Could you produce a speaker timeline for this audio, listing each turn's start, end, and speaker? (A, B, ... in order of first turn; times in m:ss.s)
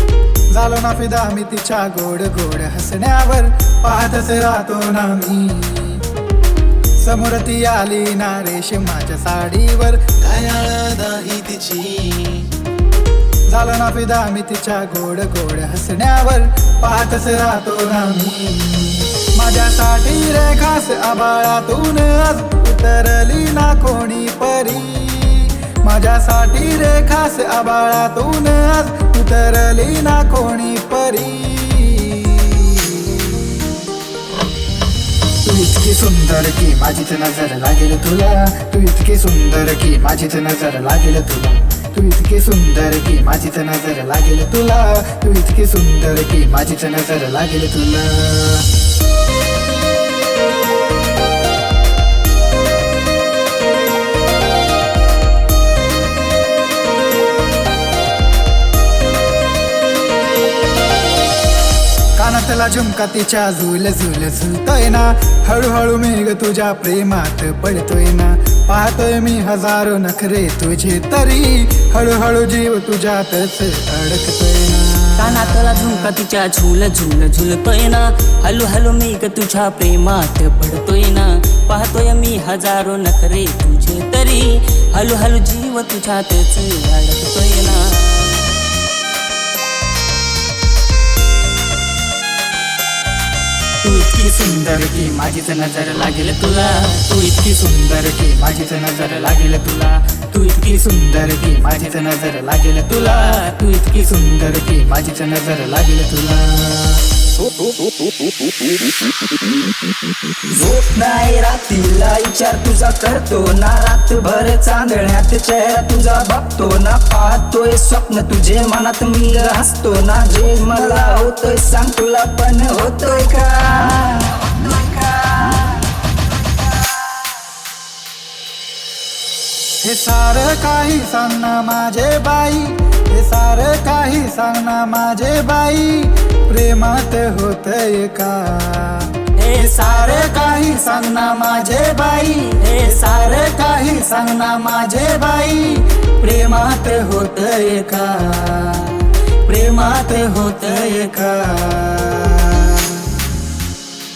0:00.5-0:06.0 A
0:07.0-0:10.1 A
0:10.2-0:12.5 B
0:13.5-0:33.7 A
0:35.4-0:48.7 A
1:02.2-1:16.1 A
1:15.2-1:28.6 C
1:33.8-1:47.0 A
1:50.4-2:04.6 D
2:09.8-2:28.7 A
2:19.4-2:20.2 C
2:22.6-2:23.4 C
2:28.6-2:29.1 C
2:29.5-2:33.1 A